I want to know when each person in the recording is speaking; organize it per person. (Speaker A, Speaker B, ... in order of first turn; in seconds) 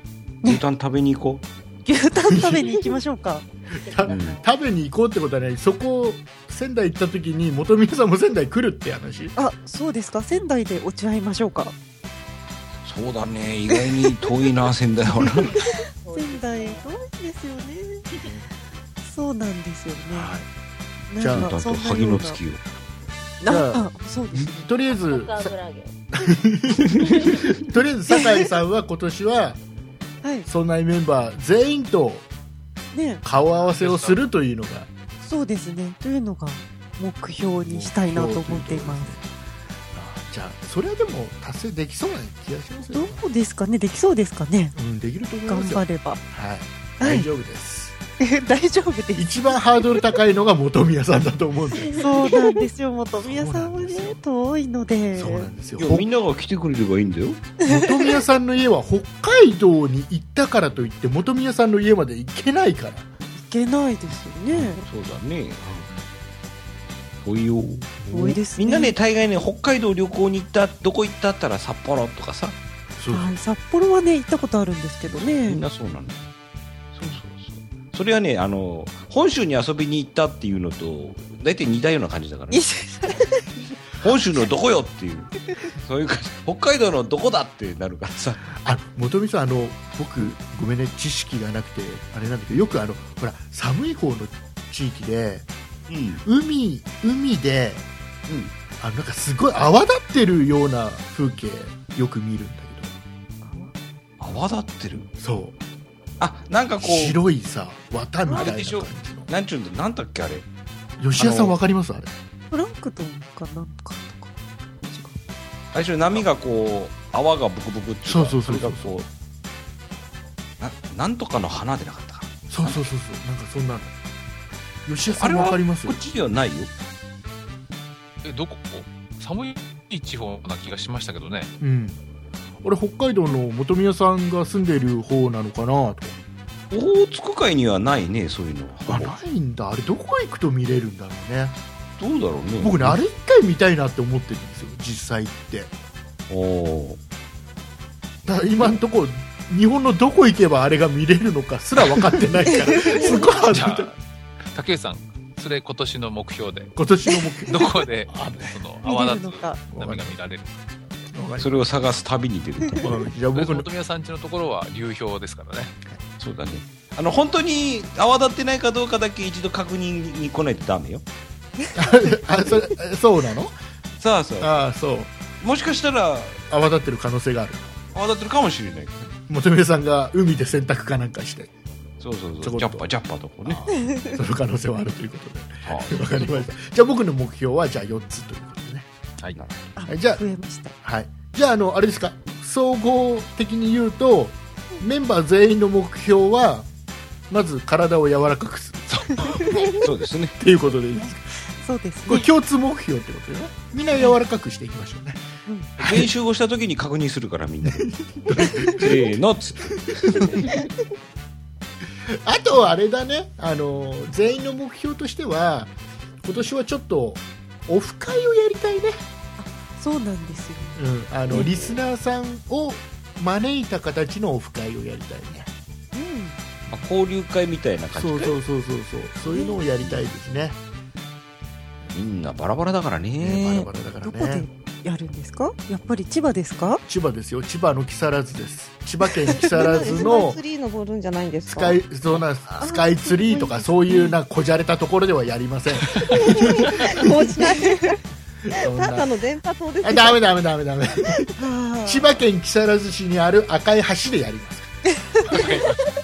Speaker A: 0.4-1.4, 4.0-4.4, 12.8-15.6, 21.3-22.6, 33.8-34.1, 55.8-57.5, 64.5-65.9, 67.2-68.0, 68.5-72.5, 75.0-76.2, 76.9-83.3, 84.0-88.5, 95.9-96.2, 98.3-98.5, 104.2-105.1, 106.2-107.2, 108.3-110.5, 111.2-111.5, 115.7-119.1, 120.6-122.9, 125.1-126.7, 136.7-139.1, 142.0-143.0, 146.3-147.0, 161.4-162.9, 166.2-171.0, 174.0-174.5, 175.4-176.5, 177.9-179.1, 182.0-183.6, 185.6-186.4, 189.3-189.7, 199.7-200.4, 205.8-210.6, 221.3-221.8, 226.7-228.4, 231.9-233.7
Speaker B: 1.9-3.4, 9.3-11.7, 15.6-18.0, 19.0-20.4, 21.1-22.4, 23.4-24.7, 28.1-28.5, 30.2-30.5, 32.9-33.2, 35.2-39.1, 42.9-44.8, 45.5-46.2, 47.0-47.3, 48.2-50.0, 51.9-55.5, 57.6-58.0, 63.4-64.8, 68.1-68.9, 73.1-75.6, 82.5-83.5, 103.4-103.7, 108.3-108.5, 112.5-115.2, 152.5-153.3, 158.8-159.6, 183.7-184.1, 189.8-190.7, 199.2-199.7, 201.6-202.3, 219.4-220.8, 225.9-226.4, 229.3-229.5, 234.0-236.8, 242.6-244.1, 247.3-247.9, 251.4-252.1, 255.0-255.7
Speaker C: 2.3-2.7, 3.8-9.3, 18.2-18.4, 20.1-20.4, 21.2-21.5, 23.5-23.9, 24.4-25.5, 26.2-29.6, 30.4-32.2, 33.2-34.9, 37.5-39.2, 39.9-43.2, 44.8-48.0, 49.1-52.0, 53.2-54.2, 55.1-56.1, 57.7-63.1, 65.6-65.9, 68.0-68.4, 73.0-73.3, 88.5-95.5, 96.2-97.9, 98.8-102.9, 105.2-105.5, 106.8-109.3, 111.0-112.1, 118.0-119.0, 122.5-123.9, 124.8-126.0, 131.6-132.0, 132.6-136.2, 138.9-141.6, 142.6-145.7, 148.2-153.9, 156.8-158.6, 159.7-160.1, 161.1-161.6, 162.8-163.7, 171.7-173.5, 174.4-175.1, 176.5-177.8, 179.3-181.5, 182.4-182.8, 183.4-188.9, 189.9-190.2, 190.8-196.7, 197.3-199.7, 200.4-201.3, 202.0-205.2, 205.8-206.1, 207.6-209.1, 209.7-210.6, 212.1-219.0, 220.8-225.5, 227.9-230.6, 233.2-234.4, 236.8-240.4, 241.5-246.9, 248.4-249.1, 249.8-254.7
Speaker D: 3.8-4.5, 15.5-16.8, 24.9-26.0, 27.0-27.4, 51.8-52.3
Speaker E: 128.2-131.5, 153.5-154.0, 154.5-156.7, 157.5-160.7, 163.3-165.7, 255.3-255.8
Speaker F: 239.4-241.8, 246.1-248.0, 248.6-250.2